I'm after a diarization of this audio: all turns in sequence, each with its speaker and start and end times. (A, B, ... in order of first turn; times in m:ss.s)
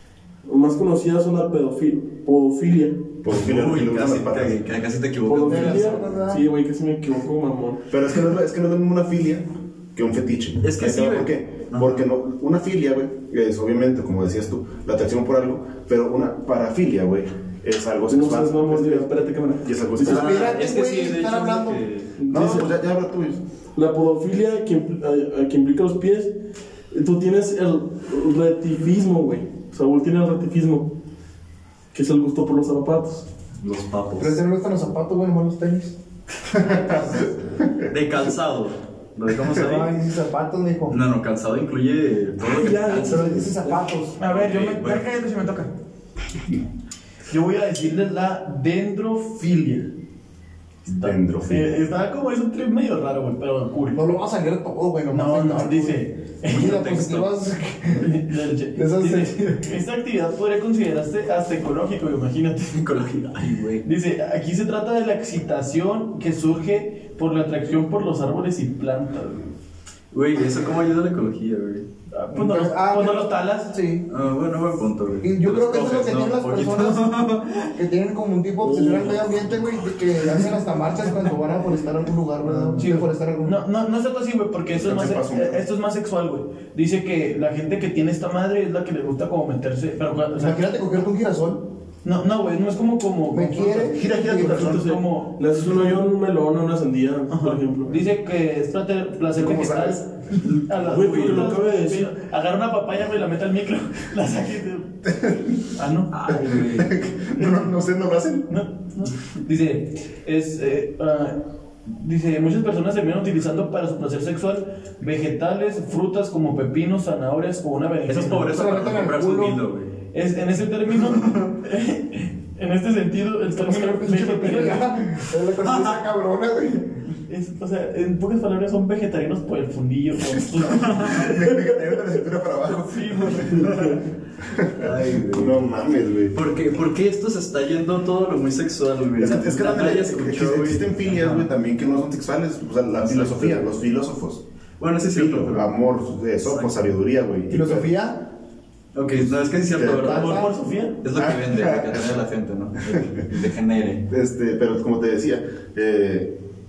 0:00.4-0:03.1 A
0:03.2-0:04.6 B
0:03.3-0:06.0 C
0:05.2-0:07.8 A
0:05.4-0:06.4 D
0:07.9-0:20.6 B
0:10.6-0:12.0 C
0:18.1-0:20.4 A
0:20.0-0:22.1 C
0:20.0-0:21.8 D
0:22.2-0:22.7 A
0:22.3-0:23.4 B
0:23.8-0:26.3 A
0:26.9-0:30.9 A
0:31.9-0:33.3 A
0:33.6-0:34.4 C
0:34.2-0:35.9 D
0:36.5-0:37.1 B
0:36.6-0:37.3 D
0:37.9-0:40.0 C
0:39.5-0:41.0 D
0:40.9-0:45.1 C
0:42.4-0:43.4 A
0:43.0-0:44.1 D
0:44.2-0:45.7 E
0:47.3-0:49.9 E
0:50.9-0:54.0 E
0:50.9-0:51.8 B
0:53.9-0:58.1 D
0:55.1-0:56.7 E
0:56.4-0:57.3 C
0:57.9-1:02.8 E
0:58.7-0:59.7 D
1:02.7-1:03.8 C
1:03.8-1:09.5 E
1:10.1-1:11.8 C
1:12.1-1:13.7 E
1:12.3-1:14.1 D
1:14.1-1:17.7 C
1:15.2-1:23.6 D
1:18.6-1:19.2 A
1:22.4-1:30.6 E
1:24.7-1:25.6 B
1:30.4-1:31.6 D
1:32.0-1:35.8 E
1:33.3-1:34.6 D
1:33.9-1:34.8 B
1:34.3-1:38.0 A
1:37.3-1:44.9 E
1:39.3-1:40.0 B
1:40.4-1:41.5 C
1:40.8-1:42.1 A
1:45.0-1:45.5 B
1:45.7-1:46.1 E
1:46.1-1:47.0 C
1:46.3-1:48.5 B
1:48.5-1:58.5 E
1:58.1-1:59.9 C
1:58.4-1:59.6 D
2:00.1-2:05.0 E
2:01.0-2:01.5 C
2:03.6-2:06.9 D
2:05.6-2:05.9 C
2:07.3-2:11.7 E
2:10.4-2:13.7 B
2:12.7-2:13.8 E
2:13.5-2:14.0 C
2:14.5-2:16.4 B
2:14.7-2:15.8 C
2:16.3-2:21.5 C
2:19.2-2:24.4 B
2:23.0-2:23.7 C
2:24.8-2:25.8 C
2:25.1-2:27.9 B
2:26.4-2:26.8 C
2:27.5-2:28.3 D
2:28.9-2:30.5 C
2:29.1-2:30.2 B
2:29.9-2:30.6 D
2:30.1-2:31.0 E
2:31.0-2:34.0 C
2:31.1-2:32.2 B
2:34.1-2:36.3 B